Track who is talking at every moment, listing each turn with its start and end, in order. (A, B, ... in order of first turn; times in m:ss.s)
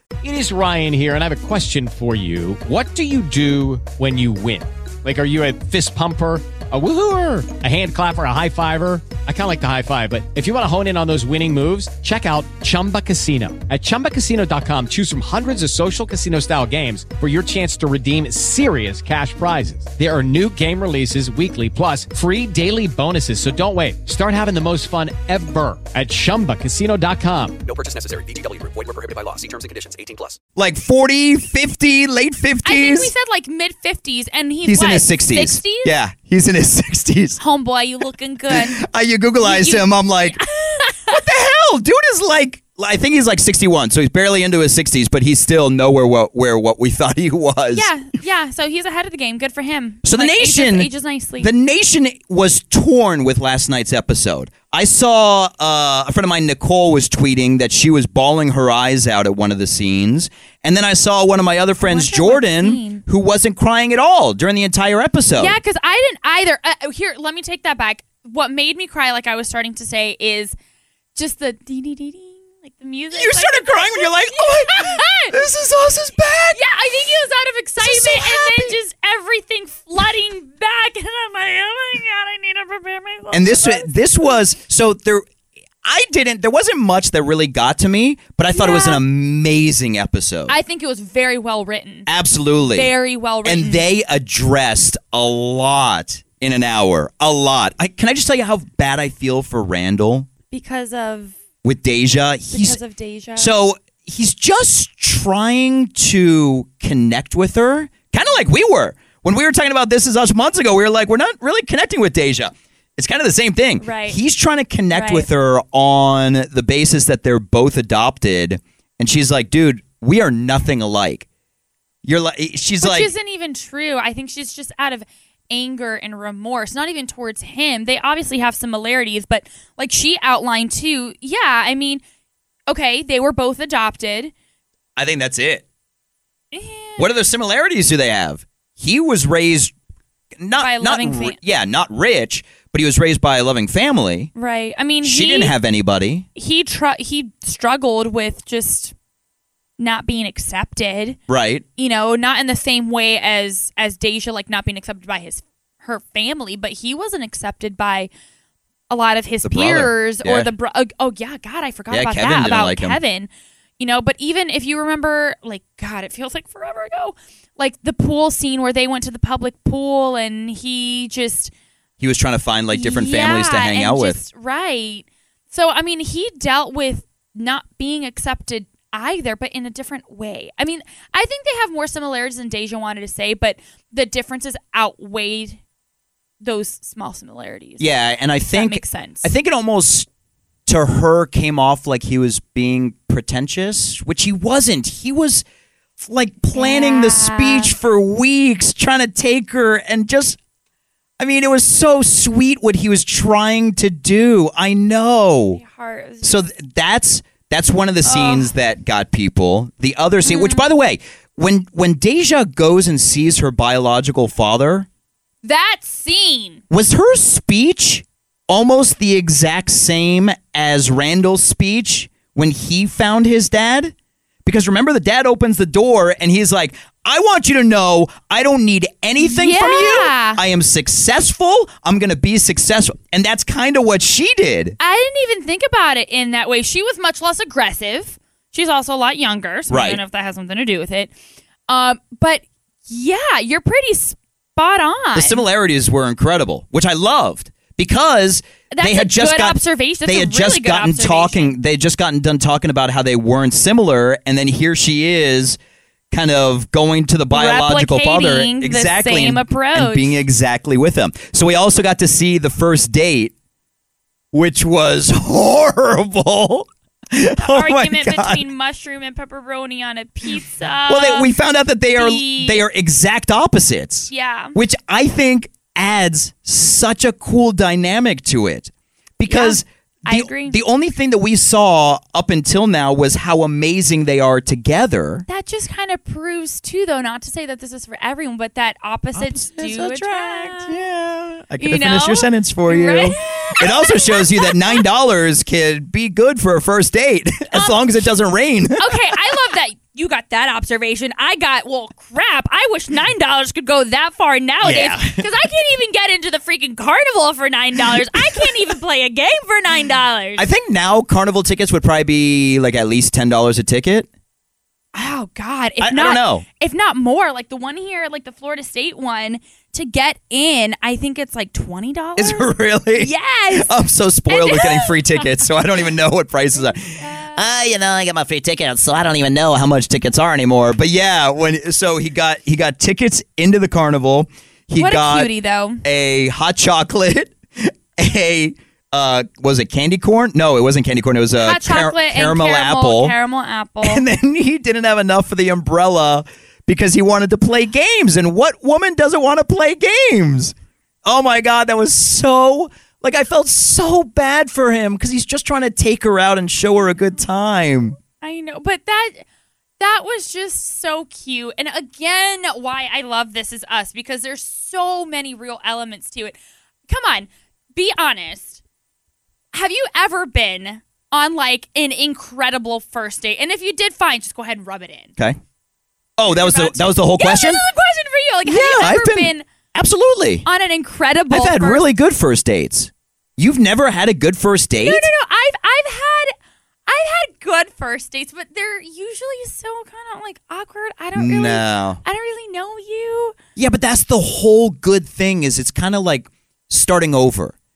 0:00.2-0:27.6 A
0:27.6-0:30.4 B
0:30.6-0:33.1 C
0:32.6-0:35.9 D
0:34.6-0:37.4 C
0:37.4-0:38.8 D
0:38.5-0:40.4 C
0:39.4-0:41.2 D
0:41.1-0:47.9 C
0:47.7-0:51.5 D
0:50.0-1:05.6 C
1:01.8-1:03.0 D
1:05.4-1:10.5 D
1:11.1-1:15.4 D
1:13.1-1:16.6 C
1:16.5-1:24.4 D
1:17.8-1:18.8 C
1:23.3-1:25.2 C
1:25.8-1:30.6 C
1:28.5-1:29.0 D
1:30.5-1:32.1 D
1:32.1-1:40.3 C
1:32.7-1:33.8 D
1:40.5-1:41.4 D
1:41.6-1:42.8 C
1:42.5-1:43.5 D
1:43.4-2:01.2 C
1:53.8-1:54.2 D
1:54.9-1:55.2 D
2:02.0-2:03.1 C
2:02.8-2:12.0 D
2:12.7-2:14.3 D
2:15.0-2:15.6 C
2:16.5-2:17.1 D
2:17.0-2:19.7 C
2:20.4-2:24.3 C
2:20.6-2:21.4 D
2:24.4-2:25.5 D
2:25.0-2:26.2 C
2:26.4-2:28.9 D
2:29.8-2:31.2 D
2:31.3-2:31.6 C
2:31.8-2:38.1 D
2:38.9-2:43.3 D
2:39.4-2:40.5 C
2:41.9-2:43.0 C
2:43.8-2:51.5 D
2:52.0-2:54.2 C
2:52.7-3:05.6 D
3:06.4-3:07.9 D
3:07.8-3:10.1 C
3:08.5-3:09.3 D
3:10.6-3:15.4 C
3:16.0-3:20.4 C
3:16.5-3:17.7 D
3:21.2-3:25.6 C
3:25.5-3:26.4 D
3:26.2-3:34.9 C
3:28.0-3:28.5 D
3:30.2-3:30.6 D
3:35.4-3:36.6 D
3:36.7-3:43.9 C
3:44.4-3:54.8 C
3:49.2-3:50.4 D
3:54.8-4:01.1 D
3:59.7-4:00.0 C
4:01.7-4:05.4 D
4:05.1-4:15.6 C
4:08.7-4:11.5 D
4:16.1-4:23.3 C
4:17.3-4:20.2 D
4:24.3-4:28.4 C
4:27.4-4:31.3 D
4:30.9-4:45.2 C
4:31.9-4:32.6 D
4:34.1-4:34.6 D
4:39.3-4:40.6 D
4:45.3-4:50.7 D
4:49.1-4:59.2 C
4:51.6-4:54.8 D
4:57.5-4:58.1 D
4:58.8-5:10.4 D
5:04.6-5:05.2 C
5:07.8-5:08.5 C
5:10.4-5:14.1 C
5:14.9-5:23.7 D
5:15.8-5:16.4 C
5:22.2-5:35.3 C
5:24.3-5:25.5 D
5:26.6-5:27.4 D
5:34.8-5:35.8 D
5:35.8-5:43.1 C
5:41.4-5:44.0 D
5:43.8-5:58.0 C
5:58.2-5:59.2 D
5:59.8-6:06.4 D
6:06.9-6:08.6 D
6:09.5-6:15.1 D
6:16.2-6:17.6 C
6:16.2-6:19.4 D
6:18.4-6:20.4 C
6:20.4-6:21.9 D
6:21.3-6:25.1 C
6:24.8-6:26.3 D
6:26.9-6:33.3 D
6:31.1-6:32.0 C
6:33.6-6:37.5 C